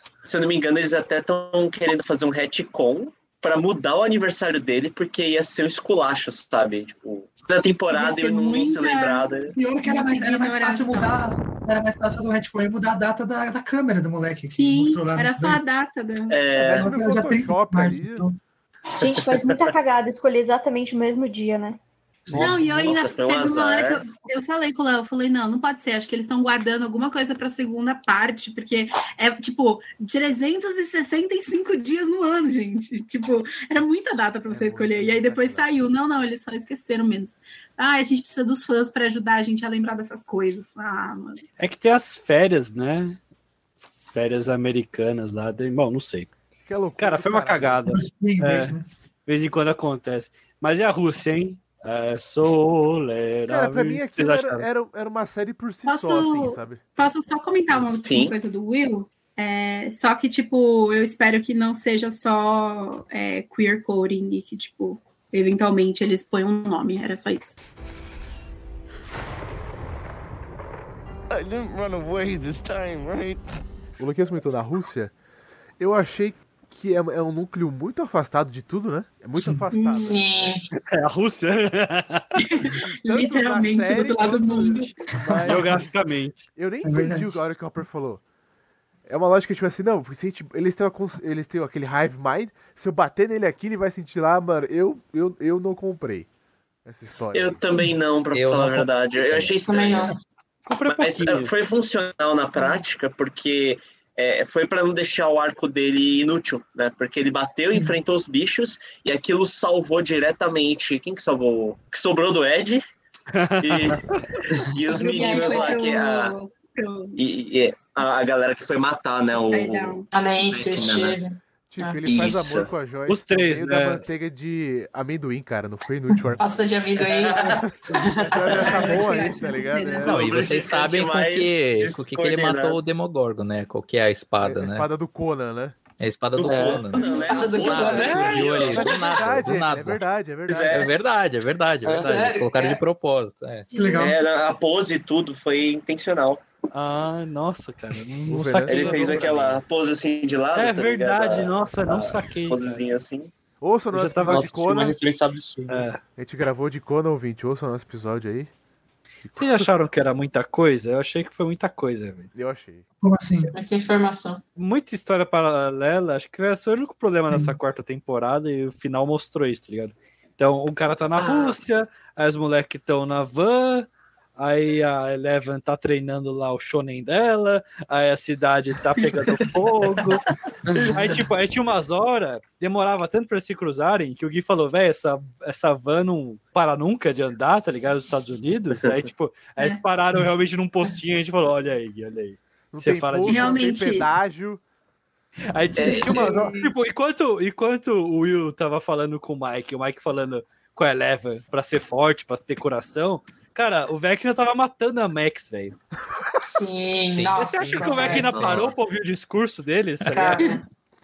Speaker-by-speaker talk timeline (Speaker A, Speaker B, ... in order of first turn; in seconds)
Speaker A: 0.2-9.6, 16.3-16.9, 19.0-19.7, 22.4-24.0, 57.7-58.4, 97.3-100.2, 100.9-112.8, 113.6-116.3, 117.2-121.2, 122.0-122.7, 127.1-127.6, 128.5-128.9, 130.1-132.8, 136.4-139.4, 140.5-140.9, 144.0-146.4, 148.7-153.3, 195.8-196.3, 208.2-208.7
Speaker B: 7.9-11.2, 14.5-16.4, 22.3-41.4, 55.8-67.6, 79.7-80.2, 82.4-84.9, 114.9-117.2, 119.3-120.1, 128.7-130.1, 193.2-194.1, 195.9-196.7
Speaker C: 9.6-15.6, 16.7-18.4, 22.3-22.7, 47.9-48.8, 79.4-79.7, 85.3-85.5, 86.8-87.3, 143.7-144.2, 163.0-163.5, 167.3-167.6
Speaker D: 16.6-18.3, 34.5-35.8, 46.7-47.9, 53.5-56.8, 74.0-75.1, 75.8-80.5, 82.7-85.9, 86.5-88.2, 89.1-96.3, 96.8-97.6, 121.7-126.7, 127.4-130.6, 134.4-135.8, 138.4-140.9, 148.3-149.4, 153.6-155.0, 156.2-158.5, 159.2-159.7, 162.3-162.8, 192.7-194.6
Speaker E: 19.0-21.8, 115.1-115.8
Speaker F: 41.6-43.2, 43.9-46.3, 47.0-54.6, 80.9-82.4, 85.5-86.5, 100.7-101.5, 113.3-114.4, 123.1-124.0, 138.0-138.7, 146.7-149.6, 150.6-152.8, 153.9-154.6, 155.7-156.0, 159.3-162.3, 164.6-180.2, 180.8-193.7, 195.5-205.8, 207.3-210.6
Speaker G: 71.3-73.4
Speaker H: 80.0-80.6, 99.7-100.2, 120.1-122.2, 126.4-129.2, 136.9-138.5, 141.8-142.8, 163.4-164.4, 206.4-208.5, 210.1-210.6
Speaker I: 98.3-99.6, 130.0-134.9, 136.0-140.0, 140.7-143.7, 207.1-208.7
Speaker J: 136.4-137.0, 141.8-142.2, 154.2-155.9, 180.7-181.0